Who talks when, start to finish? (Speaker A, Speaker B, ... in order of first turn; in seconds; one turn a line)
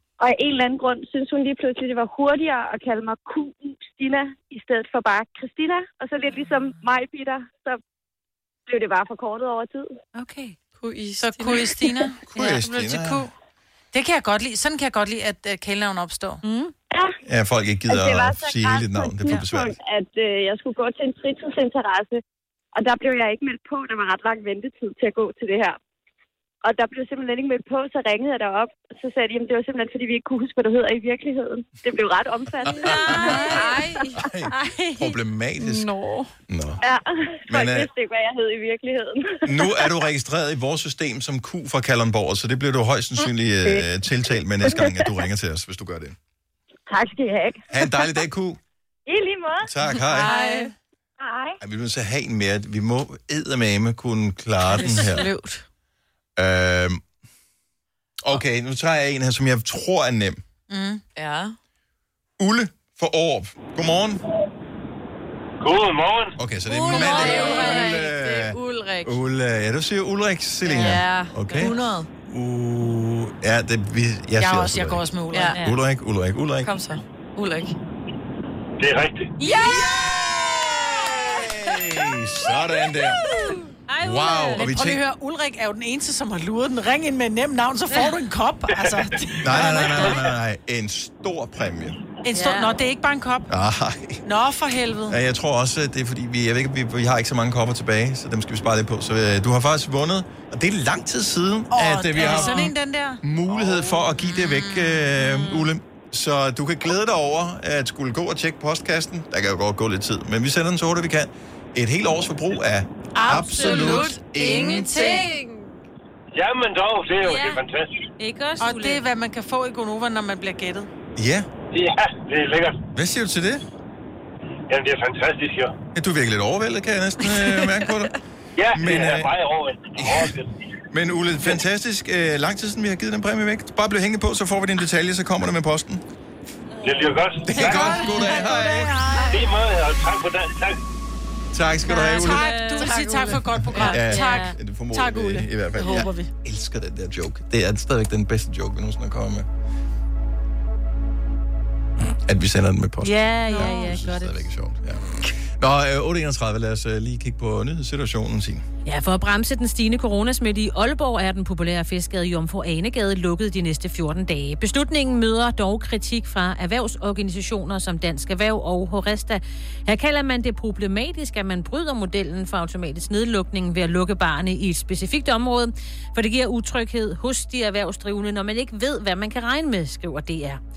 Speaker A: 0.2-7.8
Speaker A: 8.7-9.9
Speaker B: 10.1-10.6
Speaker C: 10.8-12.1
Speaker D: 11.2-13.3
Speaker E: 12.3-13.3
Speaker D: 13.9-16.4
Speaker A: 16.9-17.2
Speaker E: 17.2-19.8
Speaker A: 17.9-22.2
Speaker A: 22.7-25.8
Speaker A: 26.6-33.5
Speaker E: 32.6-35.9
Speaker B: 32.8-35.1
Speaker C: 33.6-34.0
Speaker C: 35.6-36.3
Speaker E: 36.5-36.8
Speaker A: 36.8-40.0
Speaker E: 37.5-37.9
Speaker E: 39.5-46.1
Speaker A: 44.6-45.1
Speaker A: 46.9-48.1
Speaker E: 47.7-48.6
Speaker A: 49.0-49.7
Speaker E: 49.6-50.3
Speaker C: 50.1-50.7
Speaker D: 50.2-50.7
Speaker A: 51.2-51.6
Speaker E: 51.6-55.3
Speaker C: 54.7-55.6
Speaker E: 56.4-57.0
Speaker E: 58.2-60.4
Speaker D: 60.7-61.0
Speaker C: 61.1-61.6
Speaker E: 62.4-64.2
Speaker F: 65.6-66.3
Speaker E: 66.3-75.0
Speaker D: 66.8-67.9
Speaker B: 66.8-67.8
Speaker C: 66.9-69.2
Speaker C: 70.7-72.1
Speaker D: 74.4-75.6
Speaker C: 75.3-75.6
Speaker B: 75.5-75.8
Speaker E: 75.6-76.7
Speaker C: 76.6-77.7
Speaker F: 78.8-79.3
Speaker D: 79.4-79.9
Speaker B: 79.4-79.9
Speaker E: 79.5-83.3
Speaker B: 83.9-84.7
Speaker E: 84.0-85.0
Speaker D: 84.5-90.2
Speaker E: 89.4-92.0
Speaker D: 92.3-93.5
Speaker B: 92.3-92.7
Speaker E: 93.5-94.2
Speaker D: 94.2-95.2
Speaker E: 95.1-115.1
Speaker D: 101.7-105.5
Speaker B: 102.2-102.7
Speaker D: 113.1-115.3
Speaker C: 113.6-115.8
Speaker F: 116.3-117.9
Speaker B: 117.2-117.6
Speaker B: 118.2-119.0
Speaker D: 118.6-120.9
Speaker E: 121.2-121.5
Speaker F: 121.7-122.8
Speaker E: 122.9-123.6
Speaker F: 124.7-125.7
Speaker E: 125.9-128.1
Speaker F: 128.6-130.5
Speaker E: 128.7-129.3
Speaker E: 129.9-130.3
Speaker E: 130.9-136.0
Speaker B: 136.7-138.6
Speaker F: 136.8-138.0
Speaker E: 137.4-139.0
Speaker D: 137.6-139.4
Speaker F: 139.2-140.8
Speaker E: 141.5-142.9
Speaker B: 141.9-144.5
Speaker D: 141.9-146.3
Speaker E: 143.6-149.5
Speaker E: 152.2-158.6
Speaker B: 153.0-154.4
Speaker D: 153.5-154.1
Speaker B: 158.8-180.6